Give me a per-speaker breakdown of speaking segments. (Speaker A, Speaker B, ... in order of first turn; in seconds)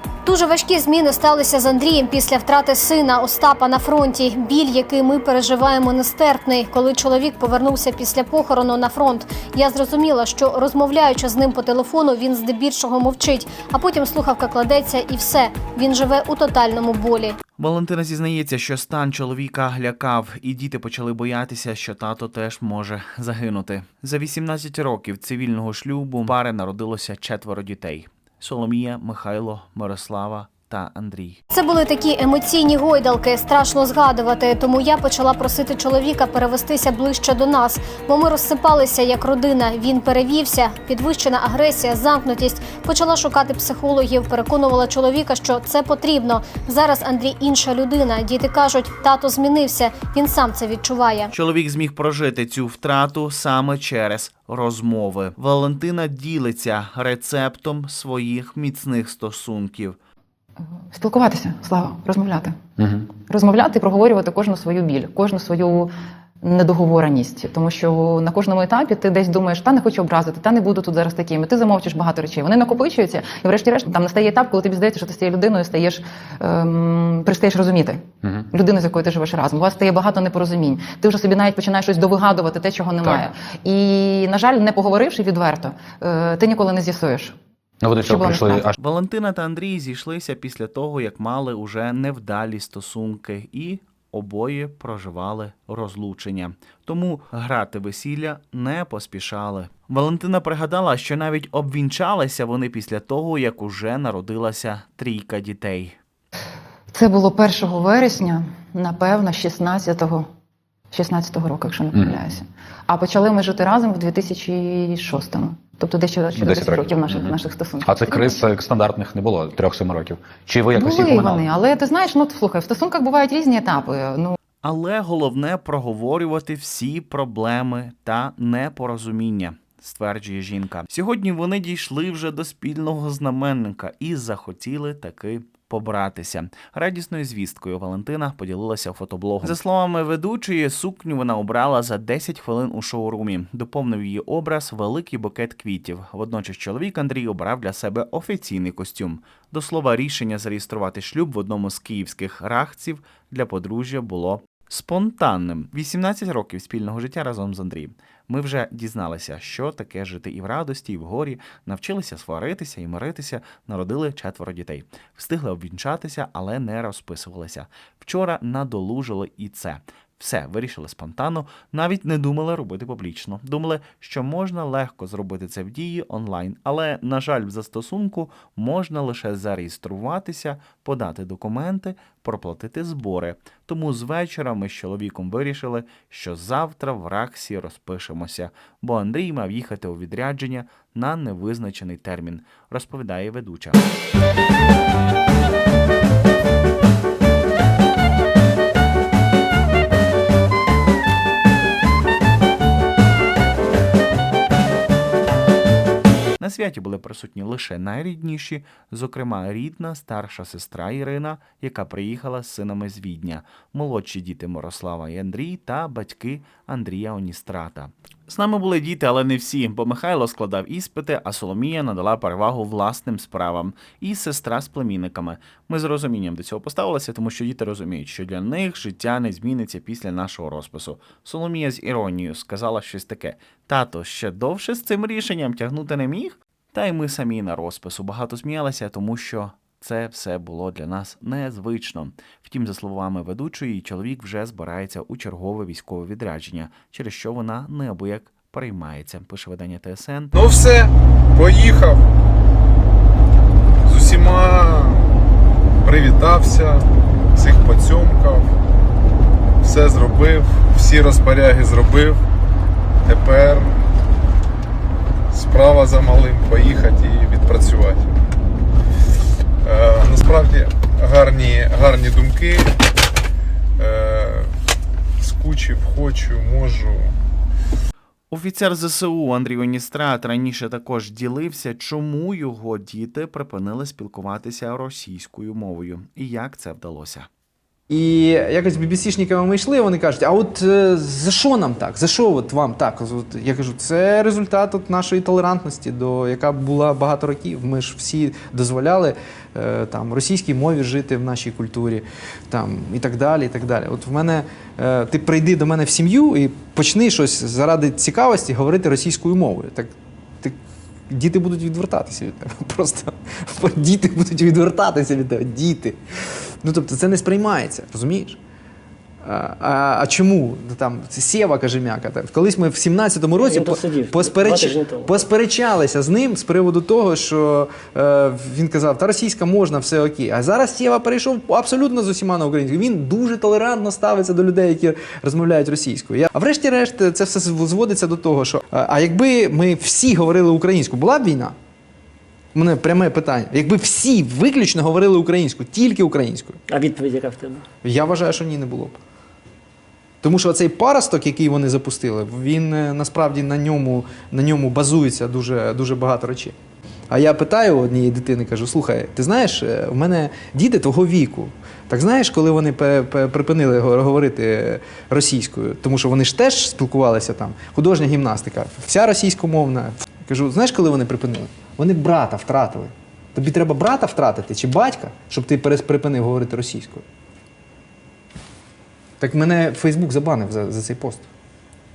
Speaker A: 0.2-17.4, 31.5-51.3
Speaker B: 17.6-31.4, 51.3-60.0, 88.8-106.0, 124.6-193.8, 206.4-250.3, 278.3-287.3
Speaker C: 60.9-62.5, 63.2-65.9, 66.4-87.3, 88.0-88.7, 106.9-110.2, 110.9-118.4, 120.7-124.3
Speaker D: 87.8-88.7, 111.9-112.2, 116.3-121.5
Speaker E: 250.3-252.0, 253.8-255.1, 255.8-256.8, 257.4-258.5, 259.6-262.2, 263.0-263.8, 265.3-268.1, 269.6-272.7, 273.8-274.5, 275.2-277.1
Speaker F: 287.9-310.6, 311.1-316.0, 316.6-318.4, 319.2-341.5, 342.5-346.6, 347.8-349.0, 350.2-356.5, 357.1-377.0, 379.2-381.2
Speaker G: 323.4-325.1, 346.7-347.6